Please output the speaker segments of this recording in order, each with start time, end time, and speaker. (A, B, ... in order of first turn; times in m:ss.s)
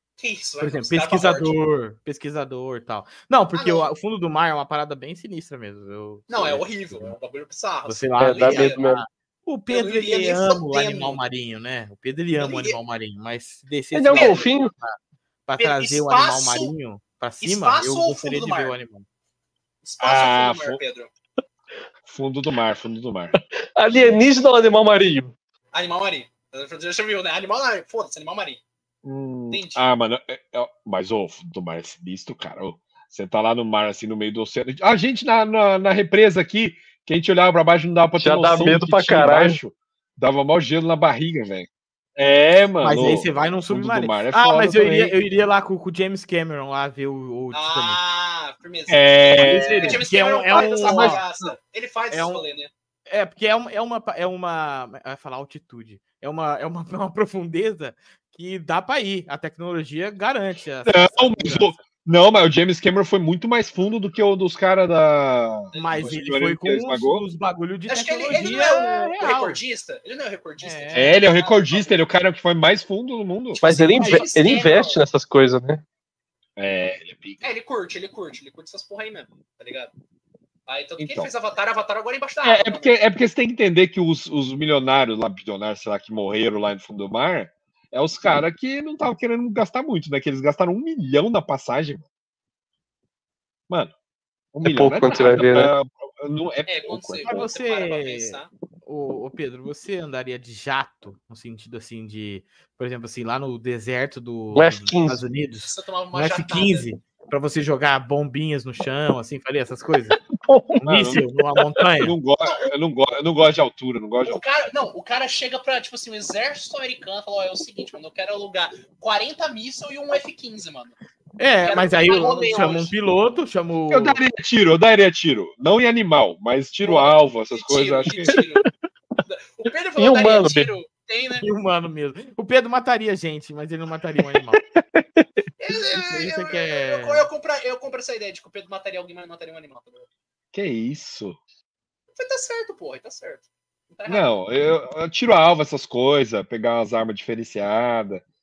0:00.2-0:01.6 A
0:00.6-0:07.2 B
0:03.5-0:03.9 A
0:06.3-0:08.8 A
0:07.8-0:19.1 B
0:08.2-0:09.0 C
0:09.7-0:11.2 A
0:12.4-0:12.8 A
0:13.9-0:14.7 C
0:14.1-0:14.5 A
0:15.6-0:16.7 A
0:17.4-0:18.8 A
0:19.8-0:21.1 A
0:20.0-0:20.8 D
0:22.1-0:23.4 D
0:23.3-0:25.3 C
0:23.9-0:24.2 D
0:25.7-0:28.6 A
0:29.0-0:45.1 D
0:29.5-0:29.8 A
0:38.2-0:39.6 C
0:42.8-0:48.0 B
0:47.5-0:52.7 A
0:48.9-0:50.0 D
0:49.4-0:51.2 B
0:50.5-0:51.5 D
0:52.1-0:52.4 B
0:53.1-1:01.8 B
1:00.8-1:07.2 D
1:05.7-1:06.2 A
1:05.7-1:09.6 B
1:07.9-1:12.0 A
1:10.6-1:11.1 B
1:10.9-1:13.6 D
1:13.5-1:15.0 A
1:13.6-1:15.8 C
1:14.0-1:14.3 B
1:16.6-1:17.4 D
1:17.4-1:19.9 A
1:20.7-1:22.9 A
1:21.0-1:21.3 D
1:22.4-1:32.0 D
1:34.5-1:37.4 D
1:34.6-1:35.7 C
1:36.6-1:38.5 A
1:37.2-1:50.2 B
1:44.5-1:45.2 C
1:45.6-1:46.9 A
1:50.3-1:50.8 C
1:50.8-1:52.1 B
1:50.8-1:51.2 D
1:52.0-1:54.4 D
1:54.2-2:01.0 A
2:01.4-2:04.2 B
2:01.6-2:02.9 A
2:03.9-2:08.3 D
2:06.8-2:08.7 A
2:08.2-2:08.7 C
2:09.2-2:11.4 A
2:10.0-2:10.8 C
2:11.4-2:14.6 B
2:14.6-2:15.4 C
2:15.6-2:20.1 A
2:15.7-2:17.3 B
2:20.5-2:21.4 D
2:22.2-2:24.3 A
2:24.1-2:28.2 D